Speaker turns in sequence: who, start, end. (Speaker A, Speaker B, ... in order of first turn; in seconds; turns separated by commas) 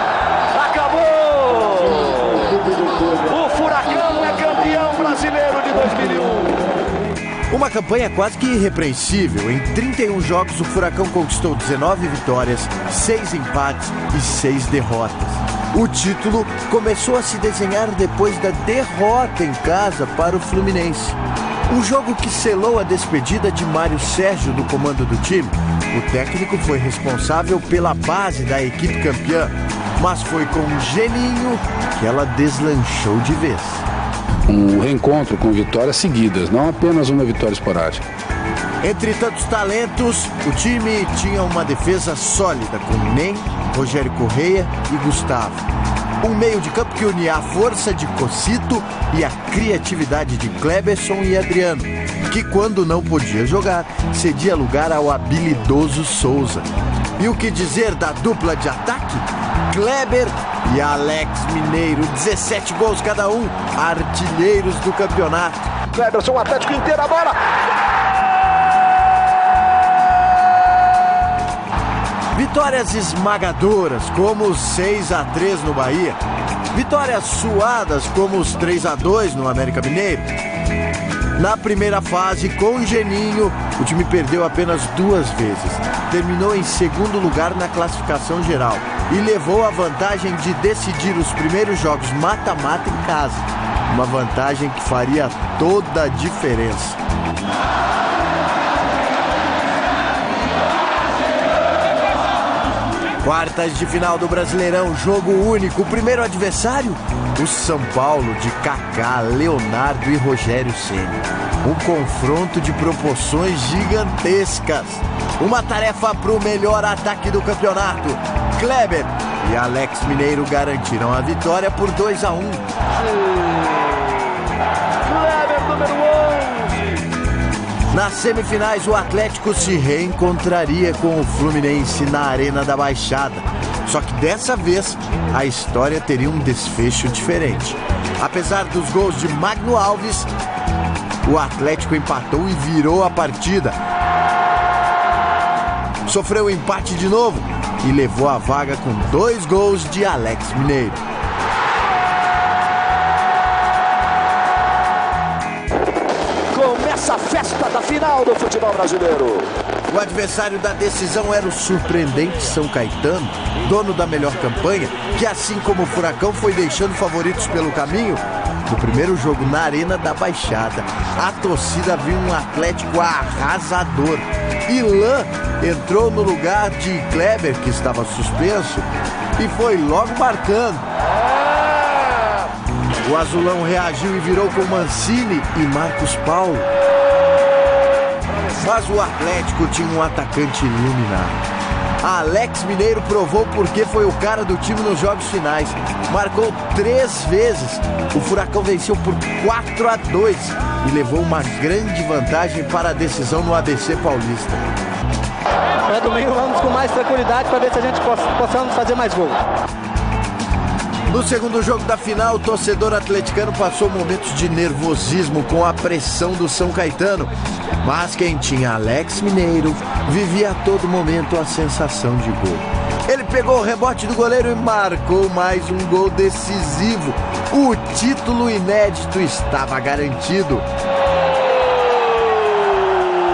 Speaker A: 0.5-6.6, Speaker B: 7.5-33.8, Speaker C: 34.5-38.0, Speaker B: 38.8-45.6, Speaker B: 46.2-56.6, Speaker B: 57.2-65.7, Speaker A: 65.9-67.4, Speaker B: 72.3-76.2, Speaker B: 76.7-80.3, Speaker B: 81.3-97.0, Speaker B: 103.2-122.6, Speaker A: 125.0-126.9, Speaker B: 127.9-140.3, Speaker B: 141.2-143.8, Speaker B: 146.0-151.0, Speaker A: 156.5-159.5, Speaker B: 159.9-180.8, Speaker B: 183.0-186.7, Speaker B: 188.4-191.4, Speaker B: 192.0-204.6, Speaker D: 205.9-209.4, Speaker B: 211.1-230.7